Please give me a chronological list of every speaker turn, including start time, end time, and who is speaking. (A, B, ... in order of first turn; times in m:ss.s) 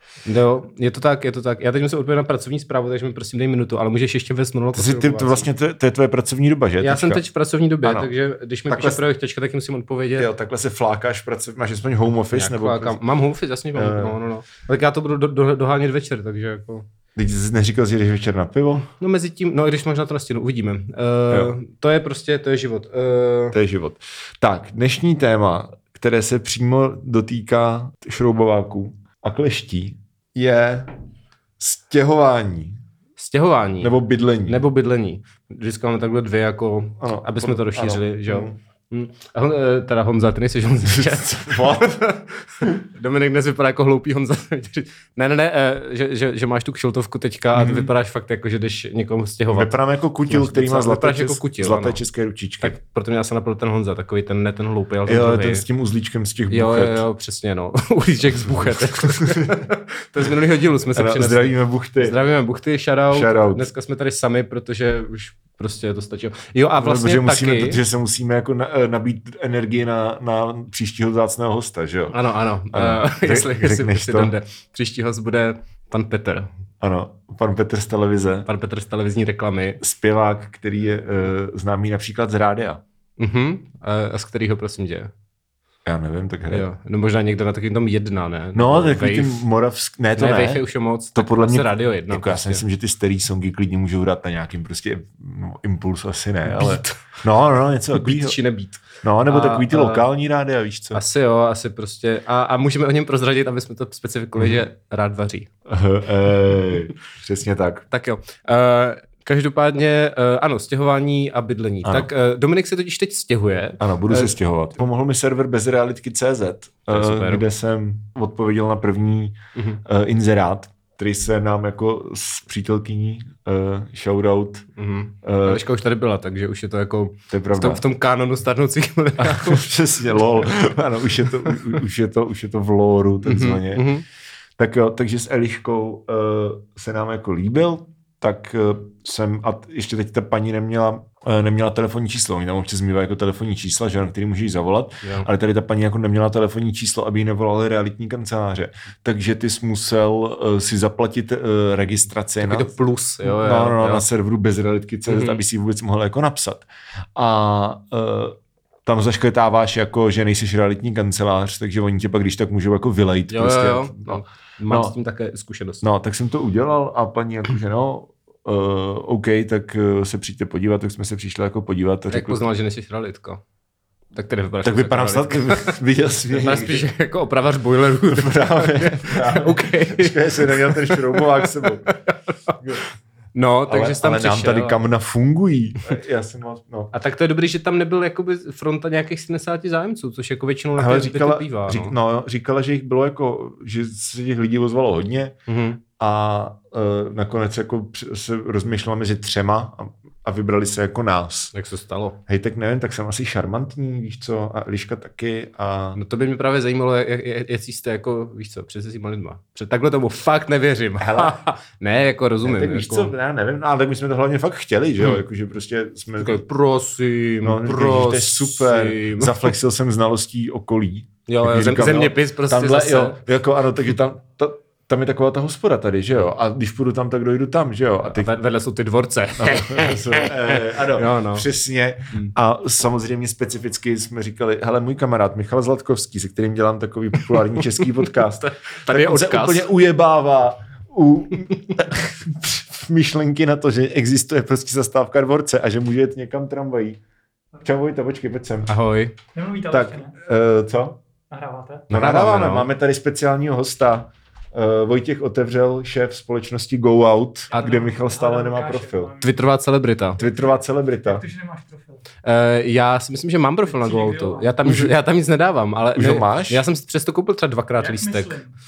0:00.2-0:05.5 A
0:04.8-0:07.2 B
0:06.8-0:10.3 A
0:07.8-0:08.1 B
0:08.7-0:09.0 B
0:10.2-0:13.0 B
0:12.3-0:16.9 A
0:13.7-0:14.2 B
0:17.2-0:18.9 B
0:19.0-0:23.6 A
0:21.3-0:21.6 B
0:23.5-0:30.9 B
0:31.6-0:32.8 B
0:33.2-0:33.9 A
0:33.8-0:34.6 B
0:34.4-0:49.7 A
0:37.0-0:38.6 B
0:40.8-0:42.1 B
0:47.5-0:47.9 B
0:49.5-0:52.8 B
0:50.3-0:52.0 A
0:52.6-0:55.7 A
0:55.1-0:57.1 B
0:56.5-1:07.8 A
0:58.6-0:59.5 B
1:01.0-1:02.2 B
1:03.1-1:03.7 B
1:06.8-1:12.2 B
1:12.1-1:16.5 A
1:12.7-1:14.4 B
1:16.8-1:18.5 B
1:18.5-1:19.8 A
1:19.8-1:22.8 B
1:23.2-1:25.1 A
1:25.9-1:26.7 B
1:26.5-1:29.4 A
1:28.5-1:38.4 B
1:30.2-1:32.6 A
1:36.4-1:37.0 A
1:37.9-1:40.1 A
1:39.0-1:41.0 B
1:40.9-1:45.5 A
1:44.4-1:44.6 B
1:45.7-1:47.9 B
1:47.9-1:54.3 A
1:51.8-1:52.1 B
1:53.8-2:04.7 B
1:56.9-1:57.4 A
1:59.6-1:59.8 A
2:04.8-2:10.5 A
2:05.2-2:05.6 B
2:07.3-2:07.8 B
2:09.2-2:13.9 B
2:11.2-2:11.6 A
2:13.2-2:14.1 A
2:14.6-2:32.7 B
2:25.0-2:25.3 A
2:32.4-2:34.1 A
2:33.2-2:45.0 B
2:35.1-2:35.4 A
2:43.3-2:45.8 A
2:45.8-2:52.4 B
2:52.1-2:53.4 A
2:54.1-3:02.5 A
2:54.6-2:56.9 B
2:58.1-3:01.9 B
3:02.6-3:02.9 B
3:03.4-3:04.8 A
3:03.7-3:06.9 B
3:06.9-3:12.0 A
3:10.8-3:15.4 B
3:15.5-3:15.8 A
3:16.0-3:21.5 B
3:21.5-3:22.2 A
3:22.3-3:26.0 B
3:26.0-3:33.1 A
3:31.0-3:31.4 B
3:32.4-3:36.4 B
3:36.2-3:39.5 A
3:37.4-3:48.4 B
3:41.3-3:43.2 A
3:48.1-3:51.5 A
3:49.4-4:07.0 B
3:58.0-3:59.7 A
4:07.6-4:08.7 B
4:08.7-4:09.2 A
4:09.4-4:10.2 C
4:09.7-4:11.0 B
4:11.3-4:11.9 C
4:11.9-4:12.7 A
4:11.9-4:19.1 B
4:17.5-4:19.4 C
4:19.2-4:20.2 A
4:20.2-4:21.2 B
4:20.2-4:20.5 C
4:21.0-4:22.0 C
4:22.2-4:28.4 A
4:23.7-4:24.6 C
4:26.0-4:26.6 B
4:27.8-4:28.5 C